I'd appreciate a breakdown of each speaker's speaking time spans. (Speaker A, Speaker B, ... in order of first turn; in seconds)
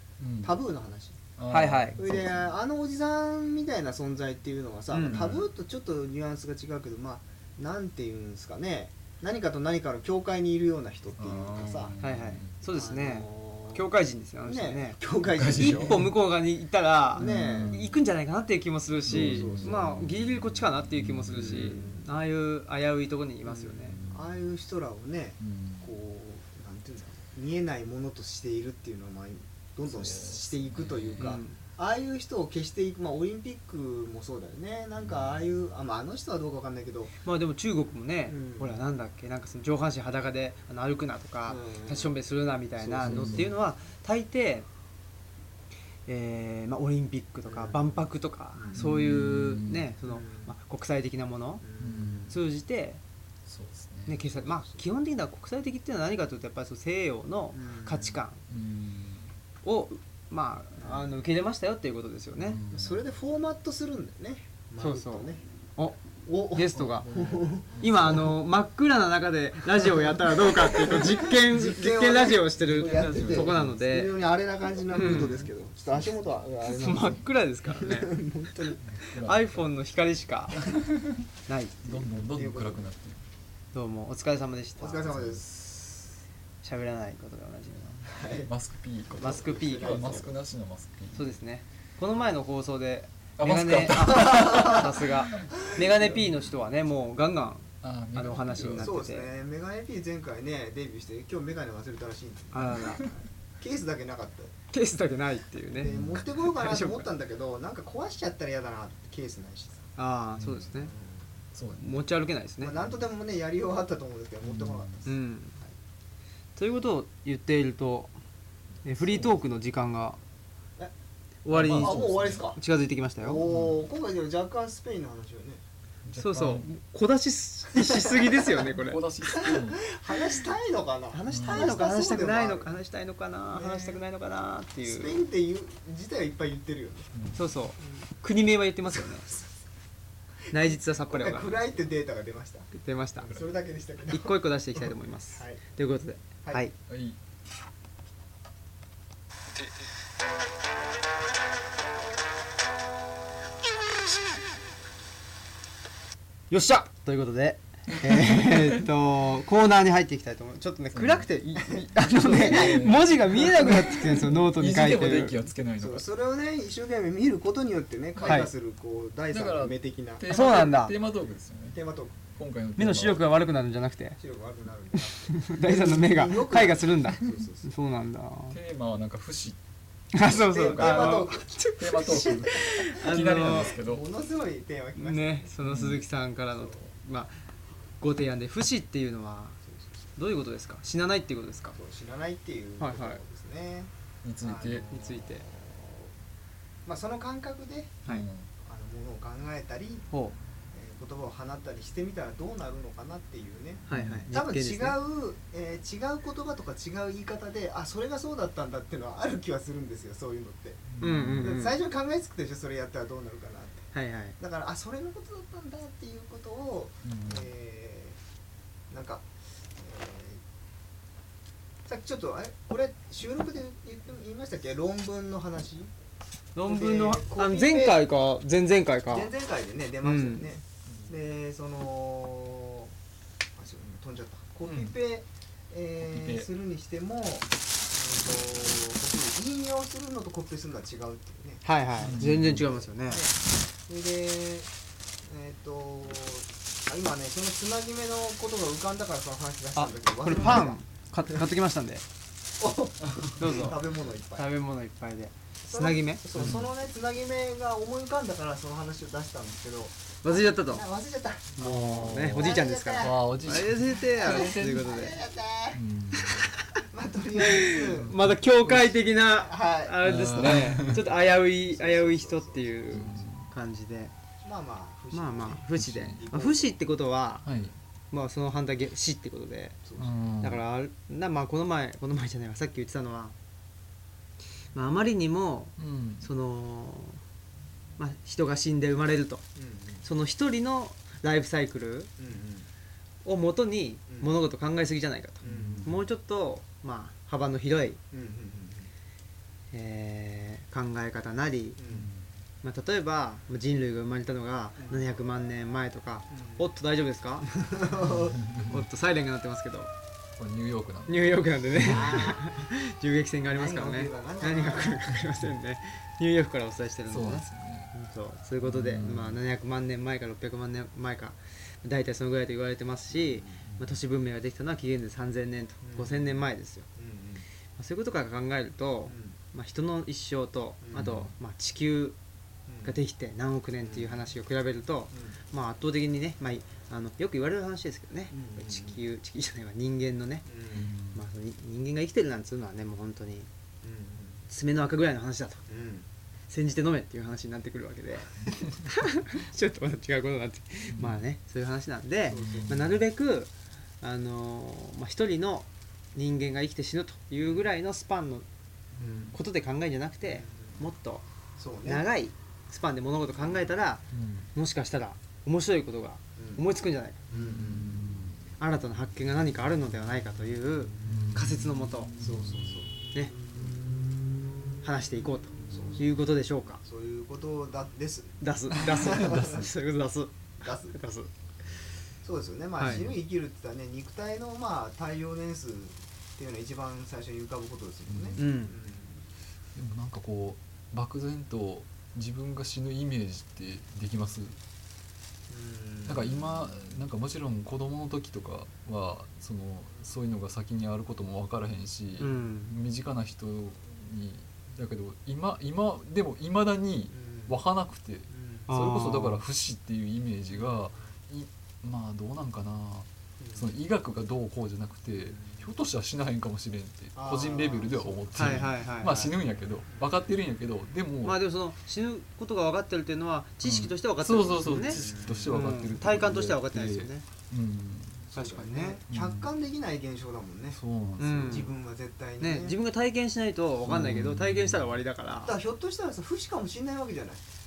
Speaker A: 0.2-0.6, 1.4-2.5, 5.0-5.4, 11.2-12.6, 15.2-16.1, 17.2-17.9, 19.1-21.9, 23.9-24.4, 25.4-25.9, 29.9-31.4, 35.0-35.3, 43.0-43.5, 48.7-49.9, 51.8-52.4, 53.5-54.2, 58.5-59.3, 62.4-63.0, 66.8-68.2, 72.7-73.7, 74.9-76.1, 78.8-79.7, 80.6-81.2, 81.8-83.2, 85.1-86.1, 88.4-91.3, 93.4-95.5, 97.8-99.0, 102.6-103.1, 105.8-106.2, 110.4-110.7, 111.5-112.0, 114.4-115.0, 119.0-119.4, 121.5-122.5, 123.4-123.8, 126.0-126.7, 128.6-129.8, 131.3-131.7, 137.1-137.5, 146.9-147.2, 158.0-158.8, 160.9-161.3, 162.0-166.1, 168.2-168.5, 169.3-171.8, 172.3-173.2, 178.5-179.6, 180.2-184.0, 185.6-186.0, 194.2-194.9, 198.0-198.5, 203.9-204.3, 210.9-211.5, 217.0-217.5, 234.6-234.9, 236.0-236.5, 242.0-242.7, 253.0-253.8, 256.3-256.7, 261.6-265.0, 265.7-266.5, 267.9-268.4, 270.0-271.0, 272.9-273.5, 275.8-276.2, 277.4-277.7, 280.0-280.6, 285.8-286.3, 295.4-296.0, 301.9-302.3, 308.0-308.8, 310.4-312.2, 317.1-317.9, 318.6-319.4, 323.6-324.0, 340.7-341.2, 350.9-351.2, 352.4-352.8, 364.1-364.5, 367.3-368.4, 371.1-371.6, 378.9-379.6, 382.8-383.2, 388.1-388.4, 389.7-394.6, 396.1-421.4, 423.6-428.3, 429.1-429.5, 430.7-431.7, 433.9-435.0
Speaker B: 0.4-1.2, 2.0-11.9, 12.7-13.8, 14.4-16.0, 17.1-17.8, 19.1-19.9, 21.5-22.1, 23.4-37.1, 38.3-38.8, 41.5-42.1, 42.8-43.5, 47.5-48.0, 48.5-48.9, 50.0-50.5, 51.6-52.4, 54.4-54.8, 57.5-58.2, 60.8-61.1, 62.7-65.4, 66.2-68.3, 69.7-78.8, 82.1-82.9, 84.8-85.4, 88.0-88.5, 89.1-90.3, 94.1-94.9, 98.8-104.5, 105.7-109.9, 110.8-111.4, 112.6-115.7, 121.6-122.6, 123.2-125.6, 129.3-132.7, 133.5-134.0, 134.8-137.1, 140.5-142.7, 143.3-144.3, 145.3-145.6, 161.8-163.8, 165.8-170.2, 171.7-172.3, 174.2-177.7, 180.4-185.5, 189.7-190.1, 191.8-193.9, 194.4-196.1, 196.8-198.0, 198.6-200.1, 200.7-213.9, 214.4-218.2, 218.9-220.4, 221.8-225.9, 226.6-228.1, 229.1-232.9, 233.6-244.7, 245.2-250.8, 252.6-254.5, 255.6-260.0, 260.6-261.6, 262.3-263.3, 264.2-265.8, 266.9-268.1, 269.3-273.2, 274.4-276.7, 279.8-280.1, 289.6-290.0, 292.2-292.7, 295.4-295.9, 298.1-298.9, 301.8-302.1, 304.8-305.2, 306.3-306.7, 307.6-308.4, 311.8-312.4, 313.5-315.1, 323.1-323.6, 325.8-326.4, 326.9-327.4, 329.1-329.4, 330.8-331.3, 332.7-333.0, 333.8-334.2, 335.1-335.4, 338.3-339.0, 340.5-340.9, 343.8-344.4, 345.7-346.1, 352.3-352.9, 359.0-359.4, 360.3-360.8, 361.6-362.0, 366.4-366.6, 367.3-368.1, 372.2-372.9, 373.5-373.8, 375.7-376.1, 376.8-379.6, 380.6-381.0, 382.2-389.2, 395.5-396.7, 407.1-407.6, 408.3-408.7, 410.6-410.9, 413.4-413.7, 415.3-415.6, 417.1-418.8, 419.9-420.2, 424.8-425.6, 428.3-430.8, 431.5-432.8, 435.4-437.4
Speaker C: 1.5-2.0, 4.9-5.3, 12.0-15.0, 15.7-24.0, 31.2-31.6, 37.2-44.7, 46.0-51.6, 52.3-53.0, 54.1-58.4, 59.6-62.6, 64.8-66.0, 66.5-67.1, 67.8-74.1, 74.9-75.4, 76.6-78.2, 79.2-80.6, 81.5-81.9, 83.7-85.1, 86.6-88.0, 89.2-90.3, 91.1-99.3, 102.5-103.1, 104.7-107.1, 110.0-110.9, 111.8-112.8, 115.0-115.6, 116.5-118.1, 118.8-120.2, 121.4-123.4, 126.2-129.0, 131.1-135.2, 137.3-139.3, 140.5-141.6, 142.7-143.3, 144.1-146.7, 156.5-165.3, 168.2-168.5, 170.3-170.9, 172.8-174.2, 175.0-178.6, 180.1-183.7, 184.9-187.4, 188.0-189.6, 190.2-191.8, 192.8-193.2, 194.9-195.4, 200.1-200.4, 203.9-205.0, 211.0-211.8, 213.9-214.4, 226.5-229.3, 230.0-230.5, 241.6-243.2, 249.7-252.0, 253.4-253.8, 254.3-256.2, 260.2-260.8, 261.6-265.2, 266.3-266.6, 267.4-274.1, 275.1-277.5, 278.1-279.8, 280.4-283.3, 284.7-287.2, 288.0-289.4, 290.0-292.1, 293.2-298.0, 299.7-301.8, 302.6-307.6, 308.6-309.9, 311.1-326.9, 327.8-332.2, 332.8-340.5, 341.0-343.5, 344.5-345.6, 346.5-358.4, 359.3-361.2, 361.8-364.0, 364.5-367.2, 368.6-372.1, 374.8-376.8, 378.4-381.3, 382.8-383.0, 388.4-388.8, 402.2-402.7, 408.7-409.4, 418.3-419.3, 421.2-427.2, 428.3-429.0, 431.2-431.7, 432.4-435.5